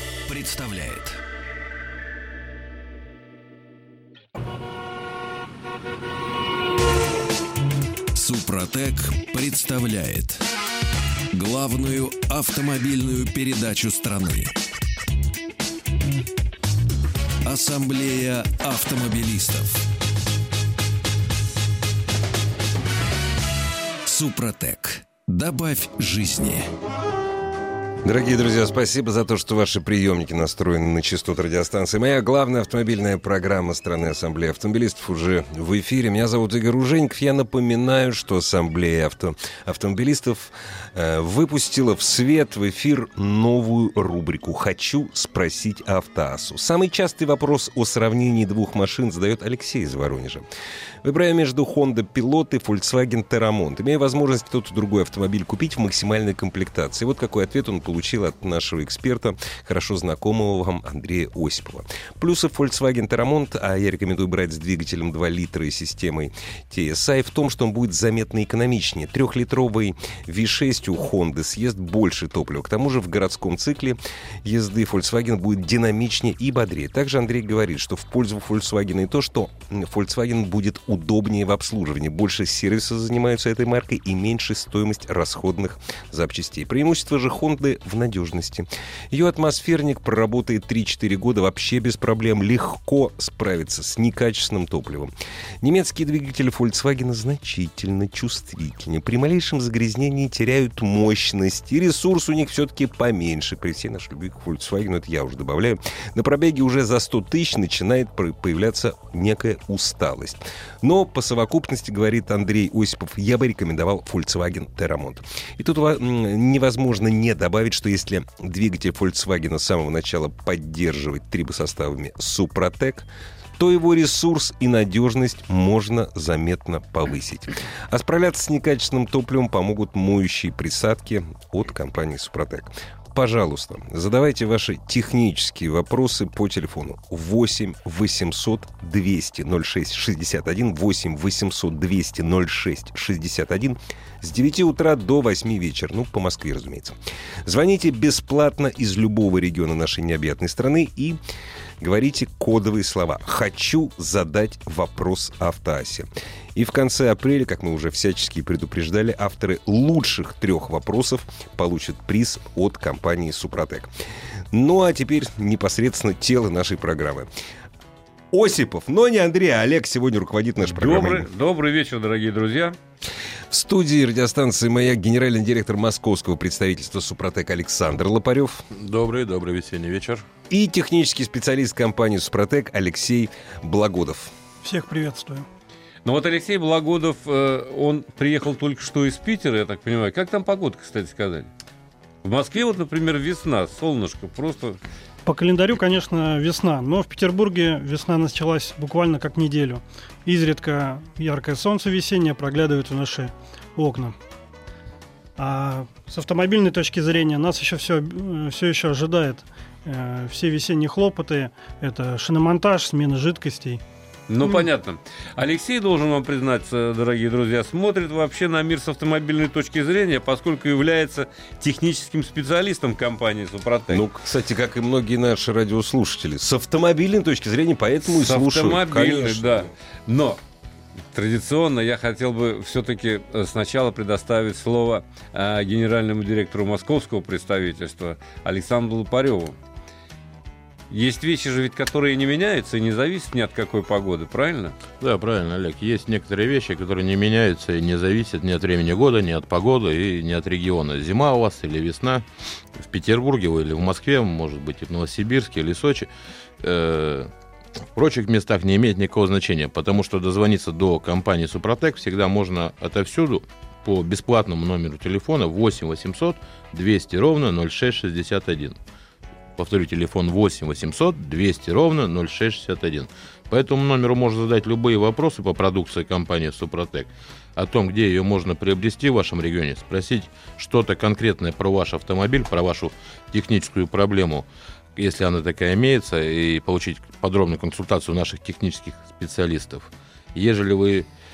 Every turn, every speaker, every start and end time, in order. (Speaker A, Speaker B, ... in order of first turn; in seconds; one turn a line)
Speaker A: 0.3-1.2
Speaker A: 8.1-10.4
Speaker A: 11.3-14.5
Speaker A: 17.4-19.8
Speaker A: 24.1-26.7
Speaker B: 28.0-50.4
Speaker B: 51.0-123.1
Speaker B: 123.6-151.2
Speaker B: 151.8-163.9
Speaker B: 164.5-167.3
Speaker B: 168.3-171.3
Speaker C: 170.7-172.8
Speaker B: 173.5-178.7
Speaker D: 178.7-180.2
Speaker B: 180.5-184.3
Speaker E: 184.6-185.4
Speaker C: 186.0-191.5
Speaker C: 192.2-194.8
Speaker E: 195.2-204.2
Speaker E: 205.4-213.8
Speaker C: 214.3-224.1
Speaker B: 223.9-229.7
Speaker C: 228.1-230.4
Speaker C: 231.1-239.6
Speaker C: 240.9-244.8
Speaker D: 245.0-256.1
Speaker D: 256.6-257.3
Speaker D: 257.9-268.8
Speaker D: 269.6-291.1